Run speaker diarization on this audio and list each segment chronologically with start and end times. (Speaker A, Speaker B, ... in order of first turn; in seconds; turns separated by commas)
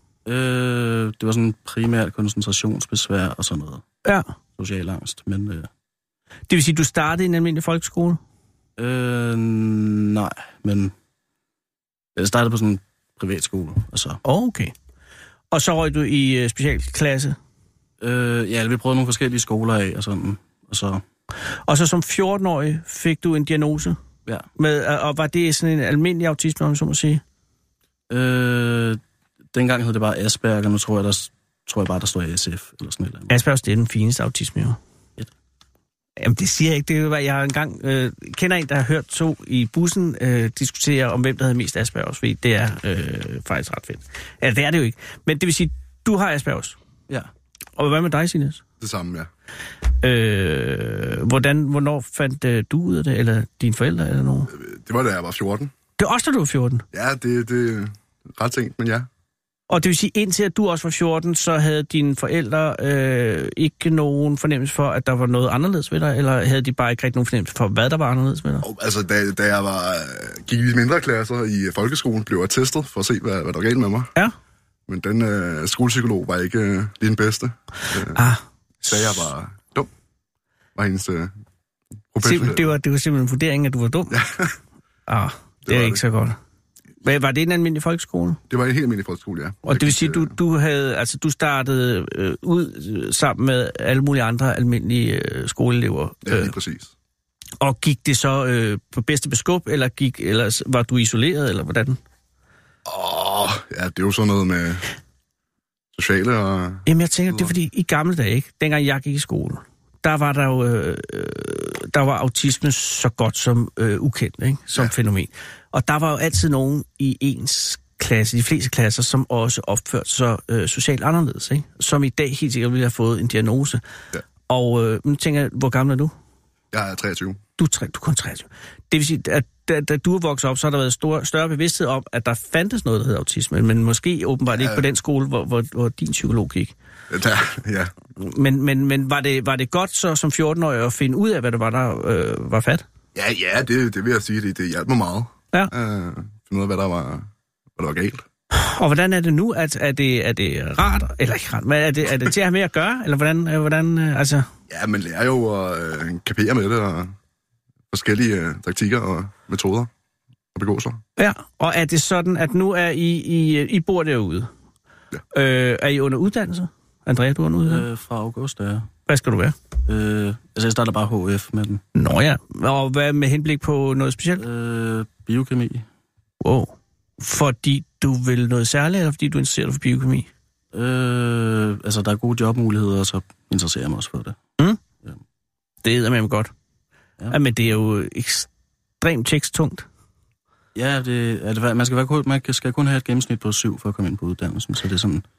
Speaker A: 0.2-3.8, Speaker A: 4.6-5.7, Speaker B: 6.5-8.2, Speaker A: 8.8-10.9, Speaker A: 12.2-14.2, Speaker B: 14.2-14.7, Speaker B: 15.5-17.4, Speaker A: 18.0-21.0, Speaker B: 21.7-24.0, Speaker B: 24.6-27.2, Speaker A: 28.1-29.0, Speaker A: 29.5-33.3, Speaker B: 33.3-34.8, Speaker B: 36.2-46.8, Speaker B: 47.8-48.6, Speaker C: 48.8-49.3, Speaker B: 50.0-54.5, Speaker C: 54.5-55.7, Speaker B: 56.0-56.8, Speaker C: 56.9-59.1, Speaker B: 59.7-68.7, Speaker C: 68.6-74.1, Speaker C: 74.9-78.2, Speaker B: 78.1-79.3, Speaker C: 78.8-79.9, Speaker C: 80.8-81.3, Speaker C: 82.1-82.7, Speaker B: 82.2-84.2, Speaker C: 84.1-84.5, Speaker B: 85.1-86.3, Speaker C: 85.7-86.0, Speaker B: 87.0-88.4, Speaker C: 88.5-90.3, Speaker B: 89.6-96.5, Speaker C: 96.2-96.9, Speaker B: 97.6-102.0, Speaker C: 102.8-104.8, Speaker C: 105.9-107.5, Speaker B: 106.8-123.8, Speaker B: 124.5-126.1, Speaker C: 126.7-127.4, Speaker B: 127.6-136.7, Speaker C: 134.5-134.8, Speaker C: 137.1-137.9, Speaker B: 138.2-142.8, Speaker C: 143.1-148.2, Speaker B: 148.5-154.5, Speaker C: 154.7-157.1, Speaker C: 157.9-159.9, Speaker C: 160.5-161.0, Speaker B: 161.2-164.5, Speaker B: 165.3-167.8, Speaker A: 167.7-168.9, Speaker B: 169.1-169.5, Speaker A: 169.9-171.8, Speaker B: 171.9-174.4, Speaker A: 174.4-175.8, Speaker B: 176.4-180.3, Speaker A: 180.7-184.4, Speaker B: 185.8-186.5, Speaker B: 187.3-188.5, Speaker B: 189.0-189.8, Speaker A: 190.7-195.2